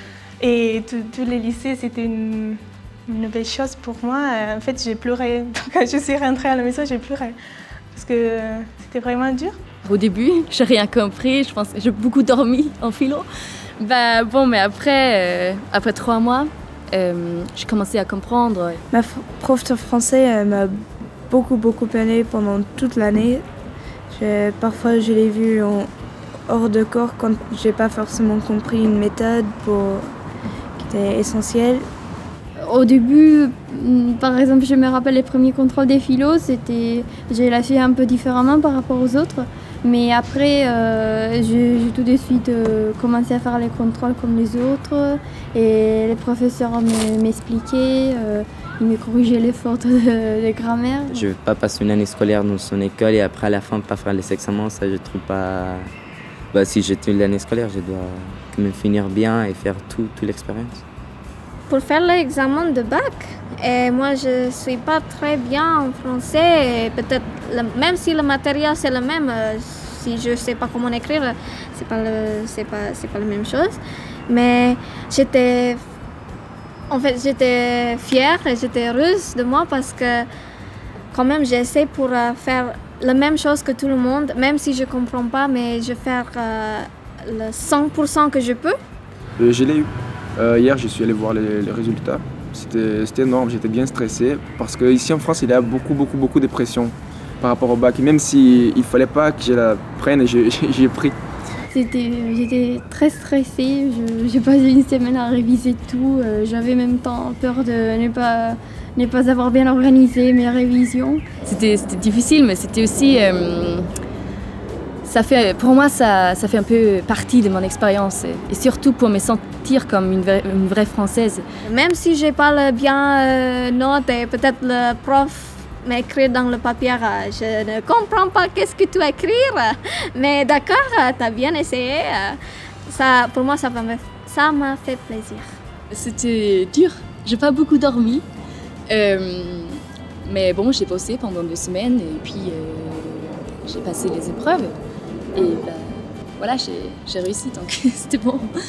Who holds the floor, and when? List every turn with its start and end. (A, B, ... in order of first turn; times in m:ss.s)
0:00.4-0:07.4 A
0:07.9-0:09.6 A
0:09.8-0:13.3 B
0:13.8-0:18.8 B
0:18.9-0:23.4 C
0:24.1-0:25.9 C
0:26.5-0:30.1 C
0:30.8-0:31.9 C
0:32.6-0:51.3 D
0:51.1-0:55.9 E
0:56.5-1:00.8 E
1:01.7-1:15.8 F
1:16.9-1:20.3 F
1:21.1-1:28.8 F
1:29.4-1:41.2 G
1:41.7-1:51.2 D
1:51.4-1:53.9 B
1:55.0-2:01.4 B
2:01.7-2:15.5 F
2:15.9-2:18.2 B
2:18.9-2:24.7 B
2:25.4-2:28.5 B